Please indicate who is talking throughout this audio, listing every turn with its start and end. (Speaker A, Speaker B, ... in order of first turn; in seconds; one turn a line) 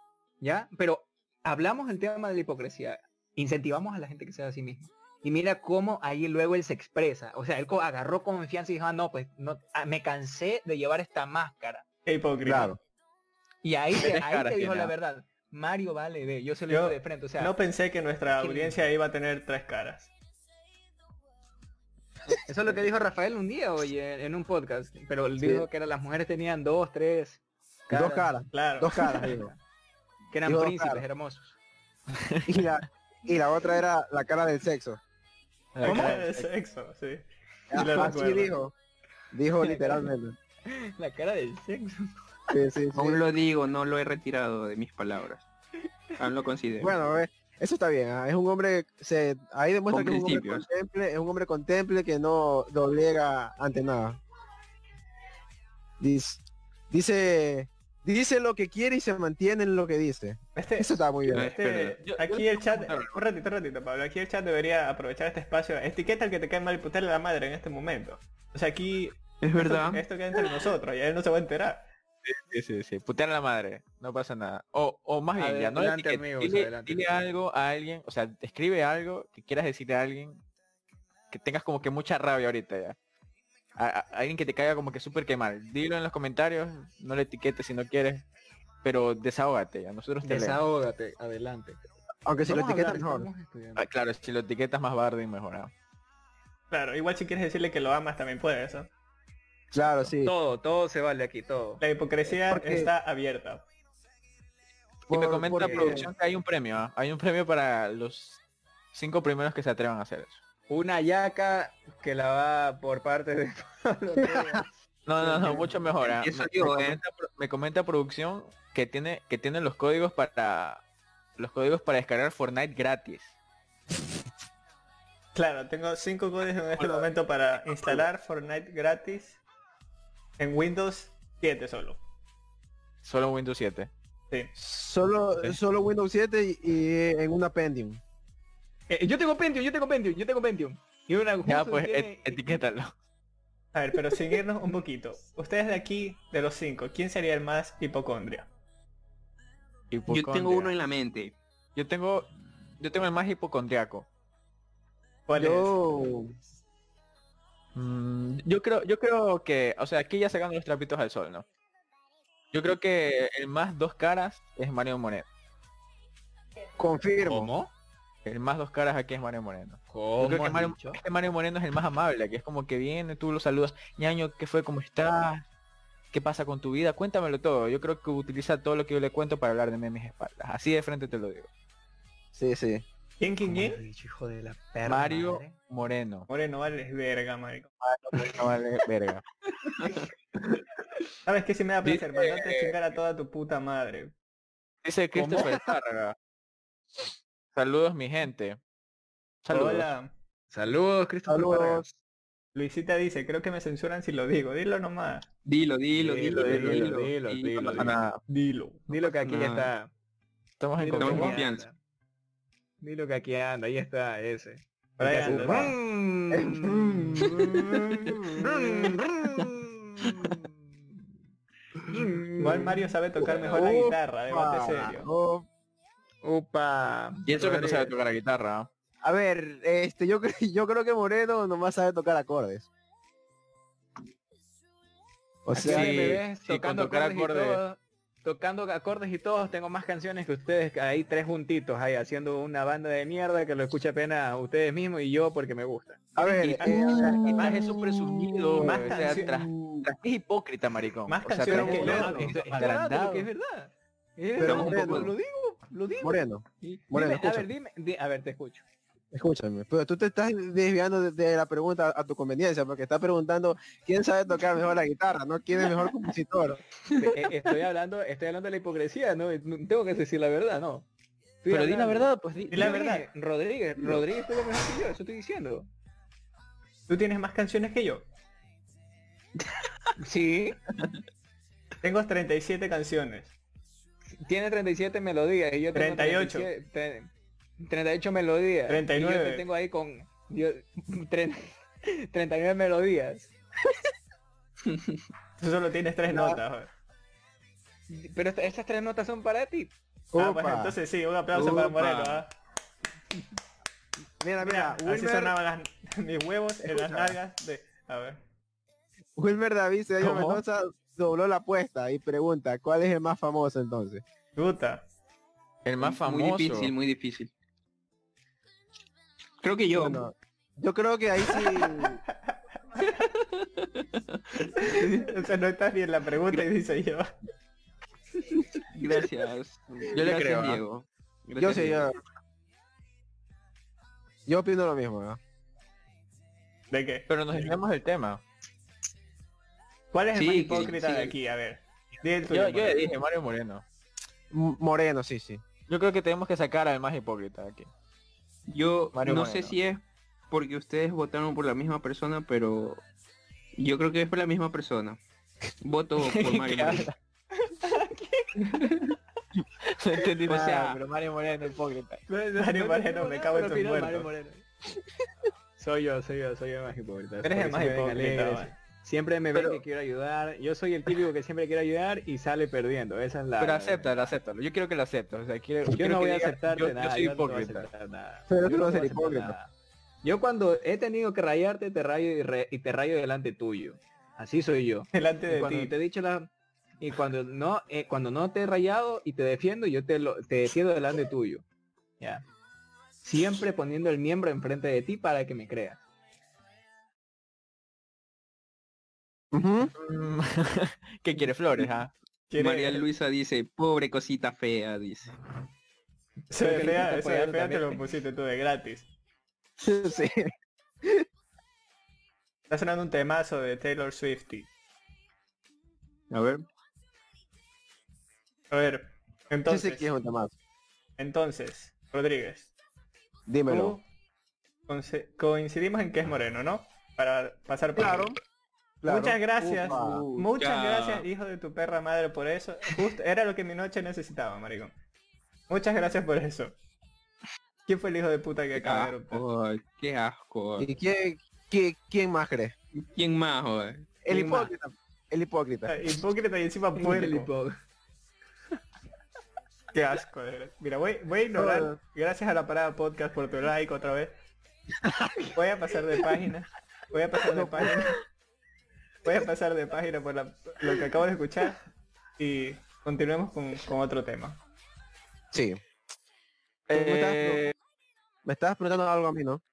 Speaker A: 0.4-11.8
Speaker B: 12.1-12.7
Speaker C: 12.4-12.8
Speaker A: 13.6-17.5
Speaker D: 14.0-14.9
Speaker B: 16.7-20.1
Speaker A: 18.4-18.8
Speaker A: 22.4-28.3
Speaker C: 25.4-25.6
Speaker C: 27.9-29.5
Speaker B: 28.5-29.3
Speaker A: 28.9-29.6
Speaker A: 30.3-31.5
Speaker C: 30.4-31.0
Speaker D: 32.1-32.8
Speaker C: 32.5-35.0
Speaker D: 35.7-36.5
Speaker A: 35.8-36.1
Speaker B: 35.8-38.5
Speaker C: 37.7-38.7
Speaker C: 39.3-40.4
Speaker A: 39.6-40.0
Speaker A: 40.6-42.1
Speaker C: 42.5-43.2
Speaker E: 42.9-45.5
Speaker E: 46.2-46.9
Speaker C: 46.8-54.2
Speaker E: 49.9-50.6
Speaker C: 56.0-61.5
Speaker B: 60.5-71.9
Speaker E: 61.3-62.0
Speaker D: 62.0-63.2
Speaker E: 69.4-70.7
Speaker D: 72.2-80.4
Speaker A: 75.3-77.1
Speaker D: 81.3-83.0
Speaker D: 83.8-88.2
Speaker D: 88.8-90.6
Speaker A: 90.2-91.8
Speaker C: 92.2-93.3
Speaker A: 92.4-93.8
Speaker D: 93.8-95.7
Speaker B: 96.7-98.9
Speaker C: 99.7-100.3
Speaker A: 100.2-101.8
Speaker B: 101.8-103.6
Speaker C: 102.3-102.9
Speaker D: 105.1-108.4
Speaker C: 105.1-106.1
Speaker A: 105.6-106.0
Speaker D: 108.9-110.4
Speaker A: 110.7-115.7
Speaker D: 115.0-120.8
Speaker E: 116.0-117.0
Speaker D: 121.3-123.3
Speaker B: 125.3-129.4
Speaker B: 130.4-132.0
Speaker D: 133.0-133.9
Speaker C: 134.6-138.0
Speaker A: 138.9-142.6
Speaker D: 141.4-142.9
Speaker B: 143.7-148.5
Speaker D: 149.9-150.7
Speaker E: 150.1-151.3
Speaker D: 151.7-154.1
Speaker B: 155.3-155.7
Speaker C: 155.3-156.3
Speaker D: 157.7-161.4
Speaker D: 162.5-165.3
Speaker C: 166.8-167.5
Speaker A: 167.2-167.7
Speaker D: 168.2-175.4
Speaker A: 169.9-171.0
Speaker D: 176.1-181.5
Speaker C: 182.3-182.8
Speaker B: 183.2-183.8
Speaker A: 183.4-185.6
Speaker D: 184.8-186.3
Speaker B: 186.3-187.7
Speaker D: 187.8-189.2
Speaker B: 191.2-194.1
Speaker D: 191.8-192.8
Speaker D: 194.8-196.2
Speaker C: 195.3-195.7
Speaker D: 197.0-198.6
Speaker D: 199.4-199.9
Speaker B: 199.5-200.1
Speaker A: 200.5-201.9
Speaker C: 201.3-201.8
Speaker B: 202.5-205.3
Speaker E: 205.4-207.9
Speaker A: 206.0-207.9
Speaker D: 206.3-207.0
Speaker D: 207.5-208.2
Speaker B: 208.3-208.9
Speaker A: 208.9-209.9
Speaker E: 209.2-209.7
Speaker D: 210.6-211.4
Speaker A: 210.8-211.8
Speaker E: 211.0-211.6
Speaker A: 212.8-217.5
Speaker B: 215.0-215.8
Speaker C: 215.3-215.7
Speaker C: 216.3-219.2
Speaker A: 218.4-220.5
Speaker A: 221.8-222.7
Speaker C: 222.4-222.7
Speaker B: 222.4-225.1
Speaker C: 223.5-225.5
Speaker A: 226.2-227.9
Speaker D: 227.2-228.7
Speaker C: 229.0-232.7
Speaker C: 235.4-236.2
Speaker A: 235.5-246.6
Speaker D: 235.6-237.6
Speaker C: 246.2-248.8
Speaker B: 246.6-247.1
Speaker D: 246.9-253.3
Speaker B: 248.6-249.4
Speaker B: 251.1-252.3
Speaker C: 251.5-252.3
Speaker A: 251.5-258.6
Speaker C: 254.4-255.1
Speaker E: 254.4-255.1
Speaker C: 256.0-257.5
Speaker C: 259.1-266.6
Speaker A: 267.0-270.9
Speaker A: 271.4-275.7
Speaker D: 271.5-272.8
Speaker B: 272.5-273.1
Speaker B: 276.9-278.0
Speaker A: 280.0-280.6
Speaker B: 281.8-283.3
Speaker A: 284.2-293.3
Speaker B: 285.7-286.5
Speaker B: 288.7-289.4
Speaker B: 295.4-296.7
Speaker C: 296.1-296.4
Speaker A: 297.9-299.7
Speaker C: 300.1-300.8
Speaker B: 300.1-302.3
Speaker E: 301.3-302.2
Speaker C: 304.2-305.3
Speaker B: 304.4-308.2
Speaker C: 306.6-307.1
Speaker C: 309.1-314.0
Speaker D: 310.0-310.4
Speaker B: 314.4-314.9
Speaker D: 315.6-316.7
Speaker E: 315.8-317.3
Speaker E: 319.4-320.0
Speaker C: 319.7-322.0
Speaker E: 323.0-325.1
Speaker B: 324.5-327.1
Speaker E: 328.3-331.9
Speaker D: 329.9-330.6
Speaker C: 331.4-332.0
Speaker C: 334.2-335.2
Speaker B: 336.7-337.5
Speaker D: 337.1-338.2
Speaker B: 339.9-342.9
Speaker E: 340.1-341.1
Speaker D: 342.3-343.6
Speaker C: 344.3-345.4
Speaker D: 345.7-347.7
Speaker E: 348.5-352.8
Speaker D: 348.9-349.5
Speaker E: 353.6-355.0
Speaker E: 355.6-356.9
Speaker D: 356.0-356.9
Speaker B: 357.6-357.9
Speaker D: 359.4-362.0
Speaker E: 360.3-360.8
Speaker A: 360.3-360.6
Speaker A: 362.1-364.4
Speaker B: 362.4-364.1
Speaker A: 365.6-374.2
Speaker B: 367.2-368.5
Speaker D: 369.3-369.6
Speaker D: 373.4-377.7
Speaker A: 375.7-379.5
Speaker C: 378.3-379.4
Speaker A: 380.0-386.3
Speaker B: 384.9-385.7
Speaker A: 386.8-391.4
Speaker A: 393.0-395.8
Speaker C: 399.3-399.7
Speaker D: 399.7-401.9
Speaker B: 402.3-402.8
Speaker E: 402.4-405.1
Speaker B: 406.3-408.9
Speaker A: 406.3-407.8
Speaker C: 409.6-410.3
Speaker B: 412.5-414.5
Speaker E: 416.1-416.4
Speaker B: 418.5-419.9
Speaker C: 419.5-420.3
Speaker B: 421.0-422.5
Speaker C: 423.3-423.8
Speaker B: 423.5-423.8
Speaker B: 424.7-428.1
Speaker C: 427.7-428.2
Speaker C: 428.8-430.0
Speaker B: 428.9-434.7
Speaker E: 429.4-431.1
Speaker B: 435.5-436.5
Speaker B: 437.7-439.2
Speaker E: 438.6-440.7
Speaker C: 440.6-442.5
Speaker E: 442.7-443.9
Speaker C: 444.0-445.8
Speaker A: 444.1-444.5
Speaker B: 445.7-447.3
Speaker A: 446.8-447.5
Speaker B: 449.7-454.1
Speaker C: 451.3-451.8
Speaker B: 455.3-458.0
Speaker C: 457.3-457.9
Speaker B: 459.0-461.6
Speaker B: 462.2-464.4
Speaker C: 465.3-465.6
Speaker D: 466.7-467.5
Speaker C: 466.7-467.4
Speaker C: 468.2-469.4